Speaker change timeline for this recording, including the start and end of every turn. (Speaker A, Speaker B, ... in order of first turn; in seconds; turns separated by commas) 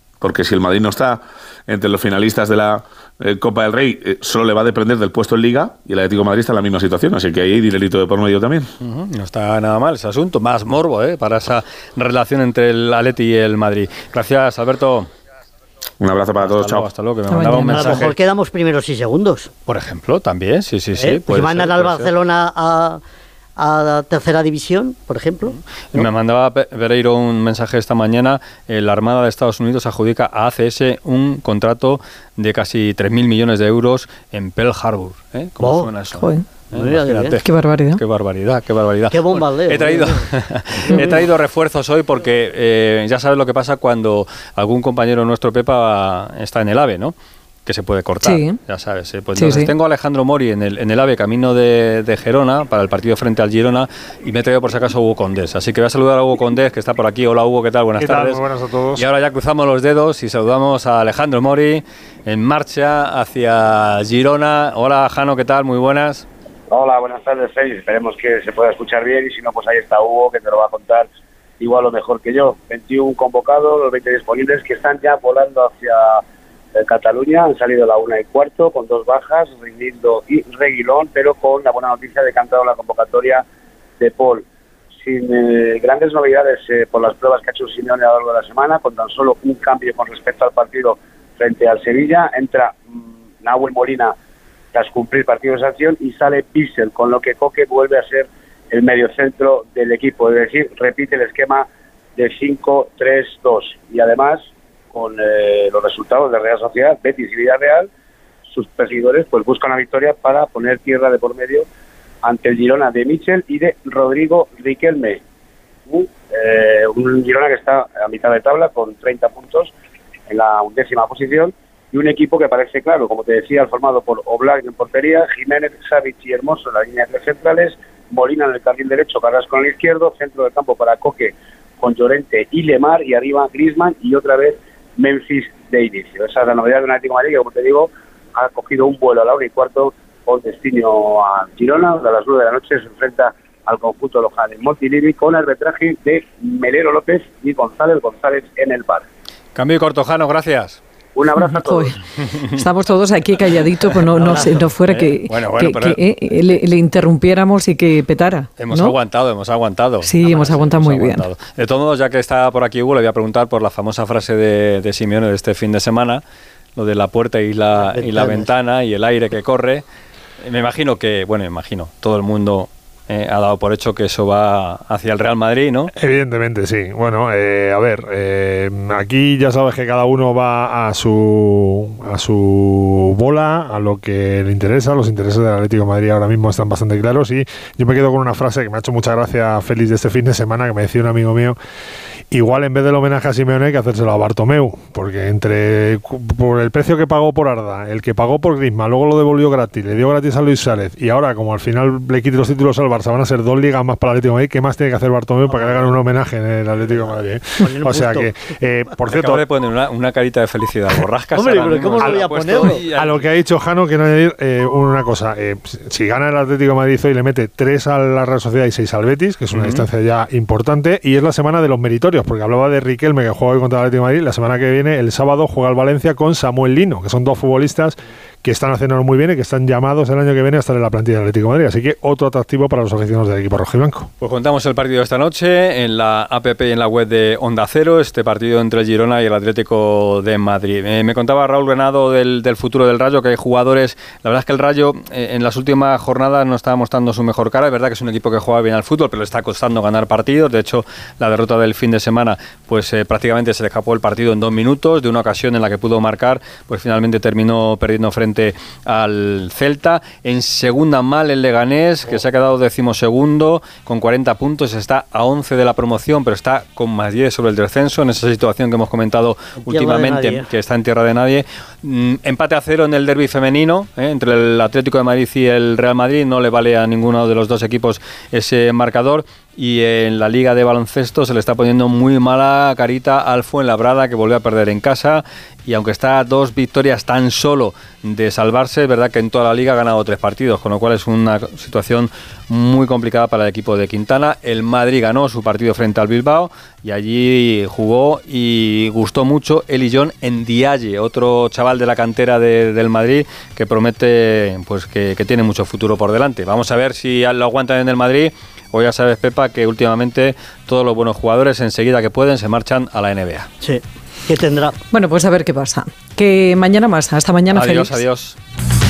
Speaker A: 0.2-8.7, Speaker B: 8.8-15.1, Speaker A: 16.0-16.9, Speaker B: 16.4-18.2, Speaker C: 17.3-17.9, Speaker D: 17.7-19.5, Speaker B: 19.7-22.1, Speaker D: 21.0-23.0, Speaker D: 23.6-26.1, Speaker B: 25.9-47.1, Speaker D: 35.6-36.1, Speaker C: 36.1-36.5, Speaker D: 36.7-37.4, Speaker C: 37.4-38.0, Speaker D: 39.1-41.2, Speaker B: 47.7-58.4, Speaker C: 48.2-48.6, Speaker C: 49.4-49.7, Speaker E: 58.0-59.1, Speaker B: 59.0-66.3, Speaker F: 66.7-71.1, Speaker F: 71.6-76.2, Speaker F: 76.8-83.4, Speaker F: 84.0-84.4, Speaker F: 85.0-94.1, Speaker F: 94.7-101.7, Speaker F: 102.2-107.9, Speaker F: 108.5-111.7, Speaker F: 112.2-115.2, Speaker F: 115.9-119.7, Speaker F: 120.3-149.1, Speaker B: 149.6-150.8, Speaker F: 151.2-152.0, Speaker C: 151.3-158.9, Speaker B: 154.0-156.0, Speaker D: 154.2-154.7, Speaker B: 158.6-166.2, Speaker C: 160.0-161.3, Speaker B: 166.8-169.8, Speaker D: 167.8-168.5, Speaker B: 170.4-175.9, Speaker E: 176.0-191.6, Speaker E: 192.3-209.4, Speaker D: 205.5-205.8, Speaker D: 207.6-208.3, Speaker B: 209.1-213.3, Speaker D: 211.3-212.9, Speaker E: 212.0-234.1, Speaker B: 219.5-219.8, Speaker B: 234.2-313.5, Speaker D: 269.6-270.5, Speaker D: 313.6-314.8, Speaker C: 314.9-318.0, Speaker B: 317.5-318.4